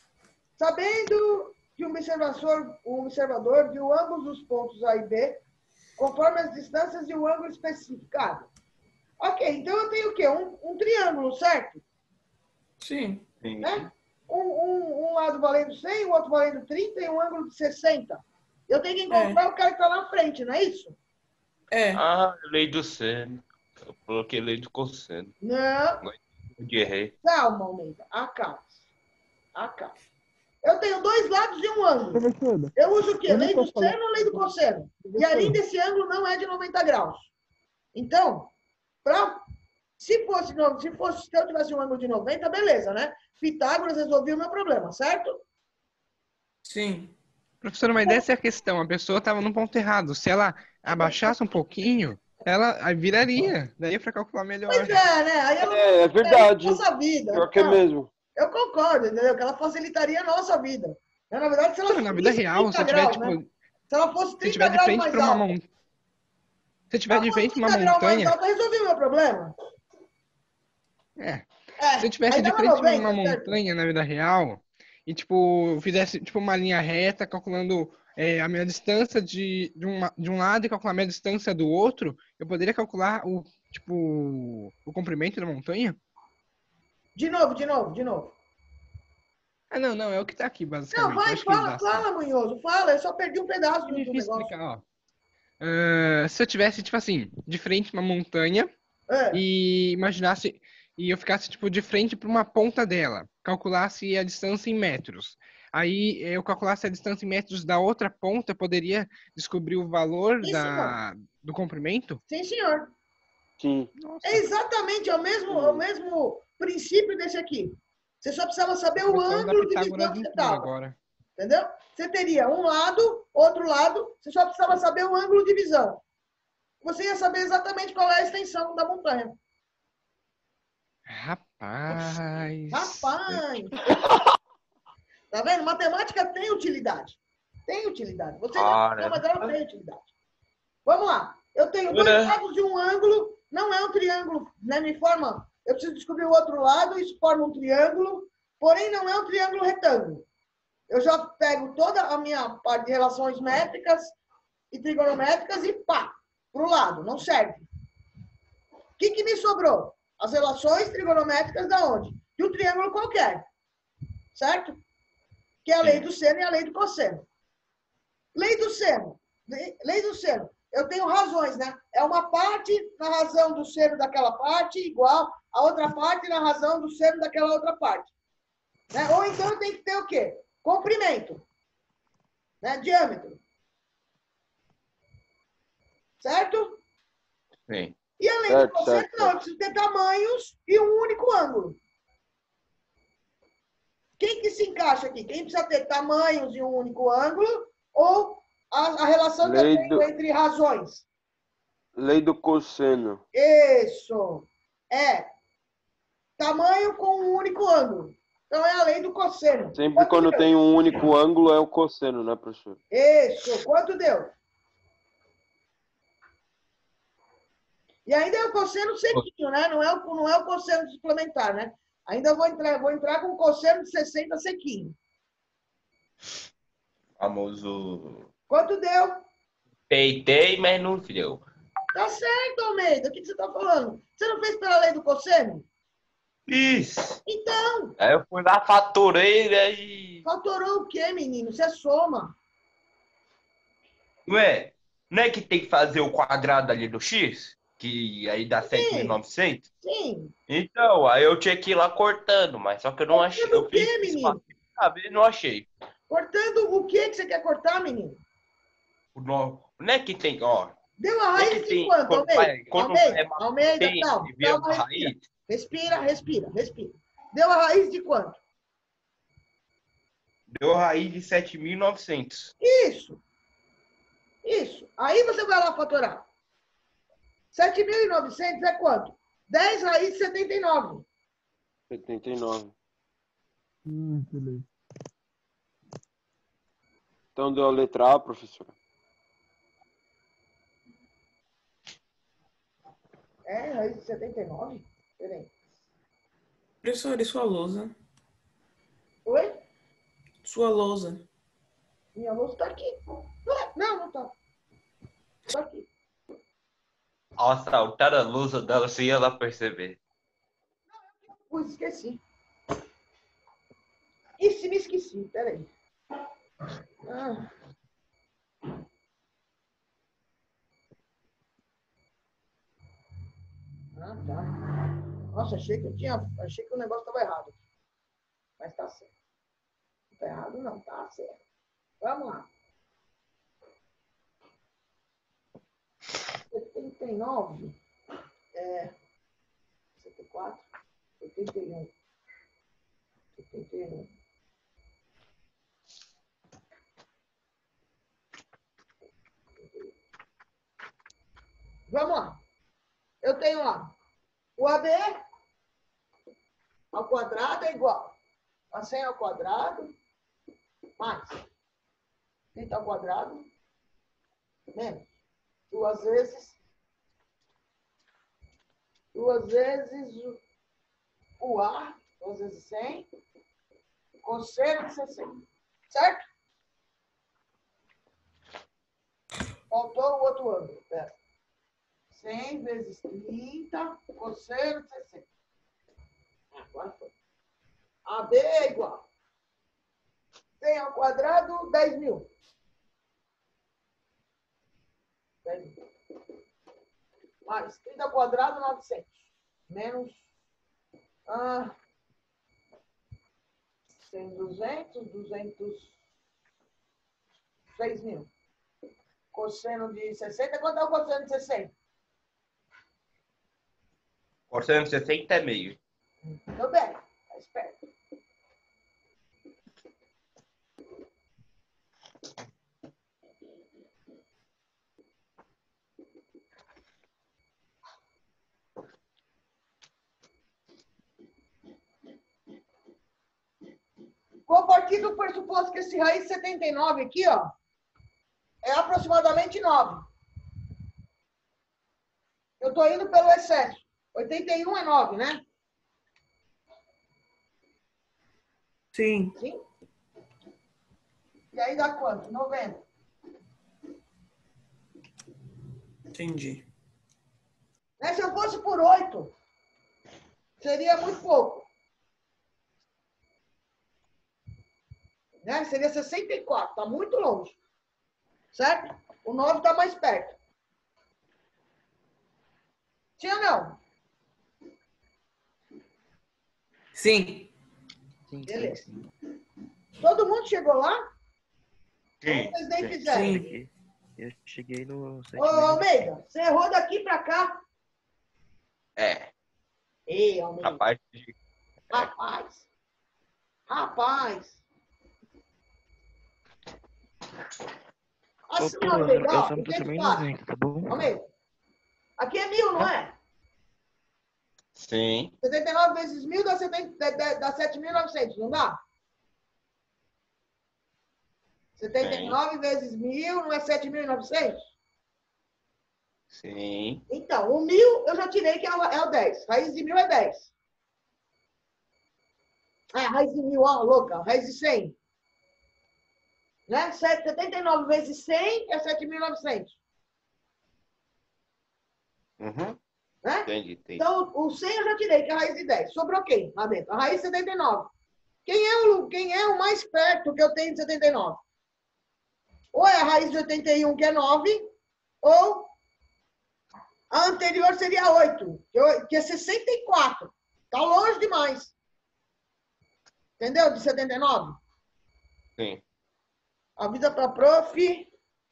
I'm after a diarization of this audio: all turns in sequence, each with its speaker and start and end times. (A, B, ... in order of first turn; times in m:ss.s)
0:00.6-0:05.4 A
0:06.0-0:08.5 A
0:09.2-0:11.8 A
0:12.8-0:13.2 B
0:13.4-0:13.9 C
0:13.6-0:21.0 A
0:19.1-0:19.4 B
0:21.7-0:22.0 B
0:21.9-0:25.3 C
0:25.4-0:26.0 A
0:26.0-0:27.1 C
0:27.2-0:28.7 A
0:29.6-0:29.9 A
0:30.6-0:37.3 A
0:32.1-0:32.7 D
0:33.2-0:34.4 D
0:35.0-0:35.6 D
0:37.9-0:38.5 A
0:39.0-0:39.4 A
0:40.0-0:45.4 A
0:46.6-0:47.1 B
0:47.6-0:55.0 E
0:50.9-0:51.3 A
0:54.7-0:57.8 A
0:55.6-0:58.1 F
0:58.4-1:03.4 A
1:01.9-1:03.5 E
1:03.9-1:05.5 A
1:04.4-1:05.7 E
1:06.9-1:08.4 E
1:07.1-1:09.5 A
1:11.2-1:11.5 E
1:11.8-1:13.6 A
1:12.0-1:26.0 E
1:27.2-1:28.4 A
1:29.7-1:32.1 E
1:30.9-1:34.5 A
1:33.9-1:34.8 E
1:35.6-1:38.7 E
1:39.1-1:39.4 A
1:39.3-1:52.2 E
1:50.4-1:51.0 A
1:52.3-1:52.9 A
1:53.6-1:53.9 F
1:54.0-1:54.5 E
1:54.2-2:00.7 A
1:55.5-1:55.8 F
1:59.0-2:01.0 E
2:01.4-2:06.0 A
2:06.8-2:09.4 A
2:11.1-2:13.6 E
2:12.7-2:14.0 A
2:15.3-2:20.0 A
2:18.5-2:19.5 C
2:20.8-2:30.2 A
2:21.9-2:22.4 C
2:30.9-2:34.2 A
2:34.7-2:37.7 A
2:39.0-2:43.4 A
2:44.3-2:44.8 A
2:45.6-2:47.2 A
2:48.3-2:58.1 A
2:58.9-3:01.4 A
3:02.6-3:03.4 A
3:06.2-3:06.8 A
3:07.7-3:08.0 C
3:08.2-3:11.8 A
3:08.5-3:09.4 F
3:14.2-3:21.0 A
3:19.4-3:20.1 F
3:22.0-3:23.2 F
3:23.3-3:25.3 A
3:26.4-3:30.5 A
3:29.8-3:32.8 F
3:32.9-3:34.3 A
3:38.1-3:45.0 A
3:47.2-3:48.3 C
3:48.5-3:49.2 A
3:49.9-3:51.4 C
3:51.9-3:55.7 A
3:56.5-3:57.2 C
3:57.3-3:58.0 A
3:58.0-4:00.2 C
4:00.2-4:02.4 A
4:04.3-4:09.7 C
4:08.6-4:09.2 A
4:09.8-4:10.3 A
4:10.5-4:15.7 C
4:13.1-4:14.4 A
4:16.1-4:18.2 A
4:19.2-4:20.8 C
4:21.0-4:28.4 A
4:21.4-4:25.2 C
4:30.5-4:32.5 C
4:32.6-4:33.2 A
4:34.4-4:36.2 A
4:37.5-4:41.1 A
4:41.9-4:42.7 F
4:43.9-4:44.6 D
4:47.4-4:48.7 F
4:53.5-4:55.5 A
4:56.8-4:57.9 B
4:59.3-4:59.6 A
5:00.4-5:01.2 B
5:02.2-5:04.3 A
5:05.5-5:05.9 A
5:07.4-5:10.0 C
5:11.5-5:12.2 A
5:14.4-5:15.7 A
5:17.0-5:17.5 A
5:24.0-5:24.6 A
5:25.3-5:27.6 A
5:28.6-5:29.1 A
5:30.2-5:31.4 A
5:32.0-5:32.5 A
5:36.5-5:37.8 A
5:38.5-5:38.9 A
5:40.0-5:40.6 A
5:41.2-5:41.9 A
5:43.4-5:44.1 A
5:49.6-5:49.9 A
5:51.9-5:52.4 A
5:53.2-5:53.9 A
5:54.6-5:55.2 A
5:56.9-5:58.2 A
5:58.7-6:00.0 A
6:01.0-6:01.4 A
6:02.6-6:03.5 A
6:04.7-6:05.1 A
6:05.7-6:06.6 A
6:09.1-6:10.4 A
6:11.4-6:13.1 A
6:14.2-6:16.2 A
6:19.7-6:21.2 A
6:22.1-6:25.2 A
6:26.5-6:27.1 A
6:28.1-6:29.0 A
6:30.6-6:32.3 A
6:35.4-6:35.8 A
6:37.5-6:39.1 A
6:39.7-6:40.2 A
6:41.3-6:41.7 A
6:44.0-6:45.9 A
6:47.7-6:48.3 A
6:49.3-6:51.7 A
6:54.5-6:55.8 C
6:56.4-6:57.8 A
7:14.5-7:17.5 A
7:18.6-7:20.0 A
7:22.6-7:25.4 A
7:28.9-7:29.4 B
7:29.4-7:29.6 A
7:31.5-7:32.8 A
7:36.1-7:36.6 B
7:38.0-7:39.3 A
7:40.6-7:41.7 A
7:45.4-7:47.6 A
7:48.5-7:50.4 A
7:53.2-7:53.8 A
7:57.0-7:57.5 B
7:58.3-7:59.0 G
7:58.5-7:58.8 A
8:00.0-8:01.0 A
8:02.2-8:02.7 C
8:02.3-8:03.5 A
8:02.8-8:06.1 G
8:03.1-8:03.5 B
8:05.4-8:07.6 A
8:09.0-8:09.3 C
8:10.1-8:10.8 A
8:10.6-8:11.3 C
8:11.9-8:12.6 A
8:13.7-8:14.6 A
8:18.5-8:20.3 A
8:18.6-8:21.1 G
8:20.9-8:21.2 A
8:22.2-8:23.2 A
8:24.8-8:25.3 C
8:25.4-8:28.8 A
8:31.8-8:34.6 A
8:32.0-8:32.4 C
8:36.3-8:37.0 C
8:37.1-8:40.5 A
8:42.9-8:45.0 A
8:46.7-8:49.8 A
8:52.4-8:52.8 C
8:53.2-8:57.9 A
8:53.5-8:54.0 C
8:58.5-9:01.4 A
9:02.7-9:04.7 A
9:05.2-9:05.7 A
9:07.1-9:11.7 A
9:13.4-9:14.6 A
9:16.8-9:18.1 A